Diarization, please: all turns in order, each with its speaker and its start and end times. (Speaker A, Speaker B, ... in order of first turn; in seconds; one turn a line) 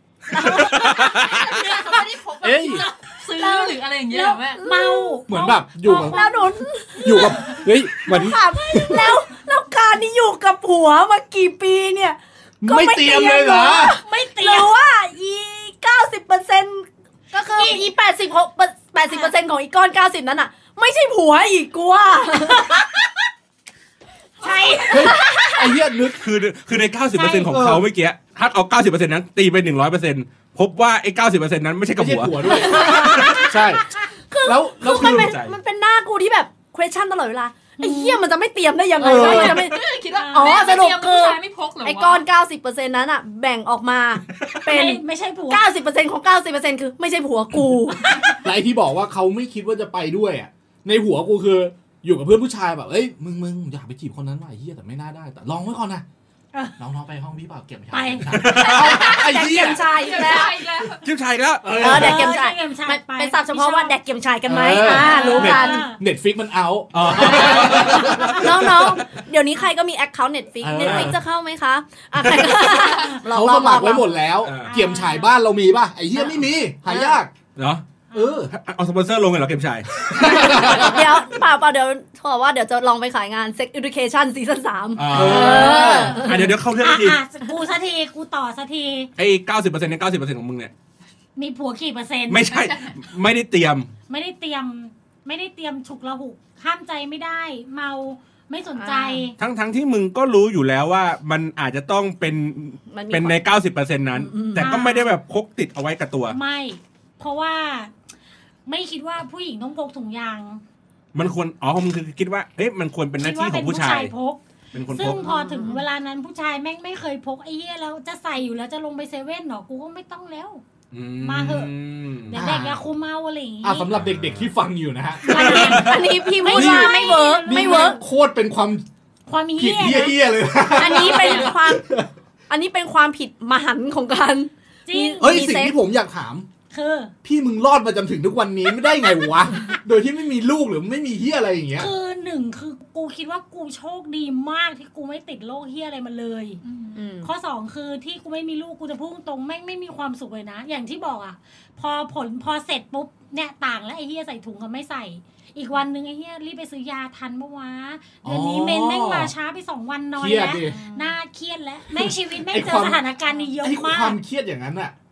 Speaker A: 0.3-1.4
Speaker B: 0.4-1.6
Speaker C: 1.0-4.6
Speaker D: 2.4-2.8
Speaker A: 3.4-5.2
Speaker E: 4.6-7.3
Speaker D: 5.3-6.2
Speaker A: 5.9-22.9
Speaker D: 7.0-9.2
Speaker D: 12.6-14.0
Speaker E: 14.0-14.7
Speaker E: 17.6-17.9
Speaker E: 19.1-19.3
Speaker E: 24.4-25.2
Speaker A: 24.9-25.7
Speaker D: 24.9-26.2
Speaker B: 26.2-32.4
Speaker D: 27.2-27.8
Speaker D: 31.9-33.8
Speaker A: 32.6-33.6
Speaker E: 33.0-33.4
Speaker A: 34.3-48.4
Speaker D: 34.4-35.4
Speaker B: 34.9-35.5
Speaker E: 37.8-38.2
Speaker D: 39.0-39.7
Speaker C: 39.0-42.2
Speaker E: 40.1-40.6
Speaker E: 44.6-45.6
Speaker D: 48.4-56.0
Speaker D: 56.8-59.8
Speaker E: 57.9-58.4
Speaker B: 58.3-59.1
Speaker C: 58.5-61.1
Speaker A: 58.7-60.6
Speaker B: 61.0-61.8
Speaker D: 61.6-62.4
Speaker A: 61.7-65.9
Speaker E: 61.8-64.0
Speaker D: 64.5-69.0
Speaker E: 64.8-66.0
Speaker B: 66.9-68.7
Speaker A: 67.2-74.2
Speaker D: 70.6-71.2
Speaker B: 70.8-71.2
Speaker B: 72.2-72.5
Speaker D: 73.2-77.3
Speaker B: 74.4-74.8
Speaker E: 74.6-75.3
Speaker A: 76.8-77.2
Speaker B: 77.5-77.8
Speaker E: 78.1-78.4
Speaker D: 78.1-78.5
Speaker B: 78.5-80.5
Speaker D: 80.1-81.0
Speaker A: 80.1-86.6
Speaker B: 85.0-87.2
Speaker D: 85.1-86.3
Speaker E: 86.8-89.1
Speaker B: 89.2-90.7
Speaker E: 91.3-92.7
Speaker B: 92.3-93.9
Speaker C: 92.5-92.9
Speaker E: 94.1-99.3
Speaker A: 98.8-99.3
Speaker B: 99.4-106.4
Speaker A: 102.9-103.5
Speaker A: 104.1-104.8
Speaker E: 104.6-105.2
Speaker E: 106.3-107.9
Speaker E: 108.7-110.6
Speaker B: 111.1-114.1
Speaker E: 113.2-120.6
Speaker B: 114.7-115.2
Speaker A: 115.0-115.8
Speaker B: 120.9-122.4
Speaker E: 121.2-123.9
Speaker D: 122.3-122.8
Speaker D: 123.6-128.8
Speaker B: 123.9-124.5
Speaker E: 125.2-128.0
Speaker B: 125.3-126.0
Speaker A: 125.4-128.0
Speaker E: 129.3-130.3
Speaker D: 129.6-132.1
Speaker A: 130.7-131.9
Speaker C: 130.8-131.5
Speaker A: 132.5-135.8
Speaker E: 134.8-135.4
Speaker D: 135.2-136.5
Speaker E: 136.7-137.1
Speaker D: 137.2-141.9
Speaker E: 141.8-146.6
Speaker C: 146.6-147.0
Speaker A: 146.9-147.3
Speaker E: 147.2-164.2
Speaker D: 158.2-159.3
Speaker D: 160.2-160.8
Speaker C: 160.6-161.1
Speaker D: 161.9-163.0
Speaker D: 163.6-164.9